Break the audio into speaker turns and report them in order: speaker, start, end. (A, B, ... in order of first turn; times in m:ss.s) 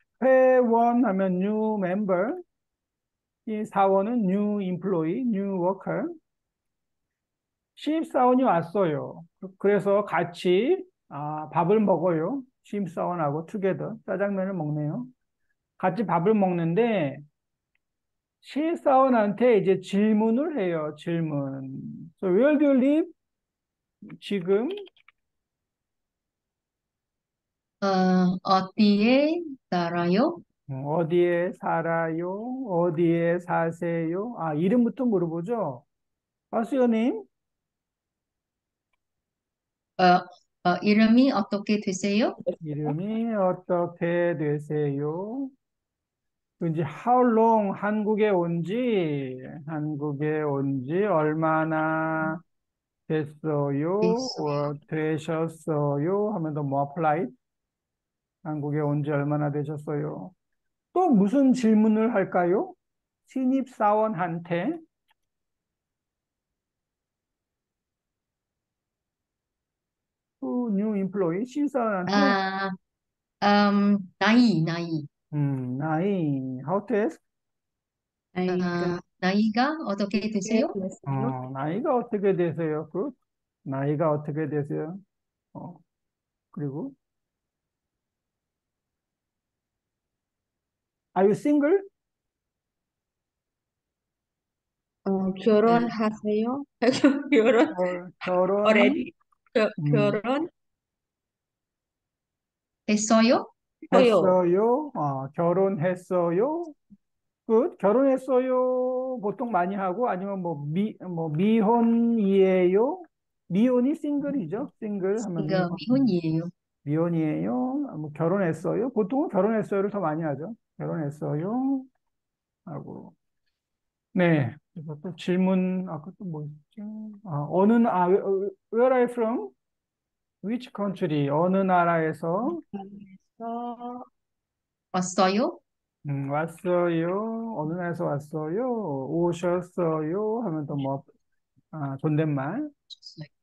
0:00.2-0:02.4 A
0:03.5-0:06.2 A
0:07.8-0:15.1 A
0:15.8-0:17.2 A
0:18.4-0:23.1 A
0:24.2-0:24.8 A
0:27.8-0:30.4 B
0:30.7-0:35.8 A
0:36.5-0:37.3 A
0:40.0-0:42.4 B
0:42.4-0:43.0 C
0:42.6-0:45.5 A
0:46.6-0:52.4 A
0:53.1-0:57.3 A
0:54.0-0:54.7 B
0:58.4-1:00.3 A
1:00.9-1:02.8 A
1:03.3-1:04.8 A
1:10.4-1:12.4 A
1:12.1-1:12.8 B
1:13.4-1:15.1 B
1:15.3-1:17.2 A
1:18.4-1:19.0 C
1:18.5-1:20.7 B
1:20.2-1:21.4 C
1:21.1-1:23.1 A
1:23.7-1:25.0 A
1:25.5-1:25.8 A
1:26.5-1:27.0 A
1:31.2-1:31.9 A
1:35.0-1:38.0 C
1:37.7-1:39.1 A
1:38.6-1:40.5 C
1:39.8-1:40.2 A
1:42.9-1:43.5 B
1:43.9-1:44.4 C
1:43.9-1:46.8 A
1:47.5-1:56.1 A
1:55.4-1:56.5 B
1:56.8-2:01.9 A
2:02.7-2:03.1 A
2:04.2-2:09.5 A
2:10.4-2:12.6 A
2:12.5-2:14.1 C
2:14.9-2:15.6 B
2:16.0-2:21.1 A
2:21.7-2:22.7 A
2:22.9-2:23.3 B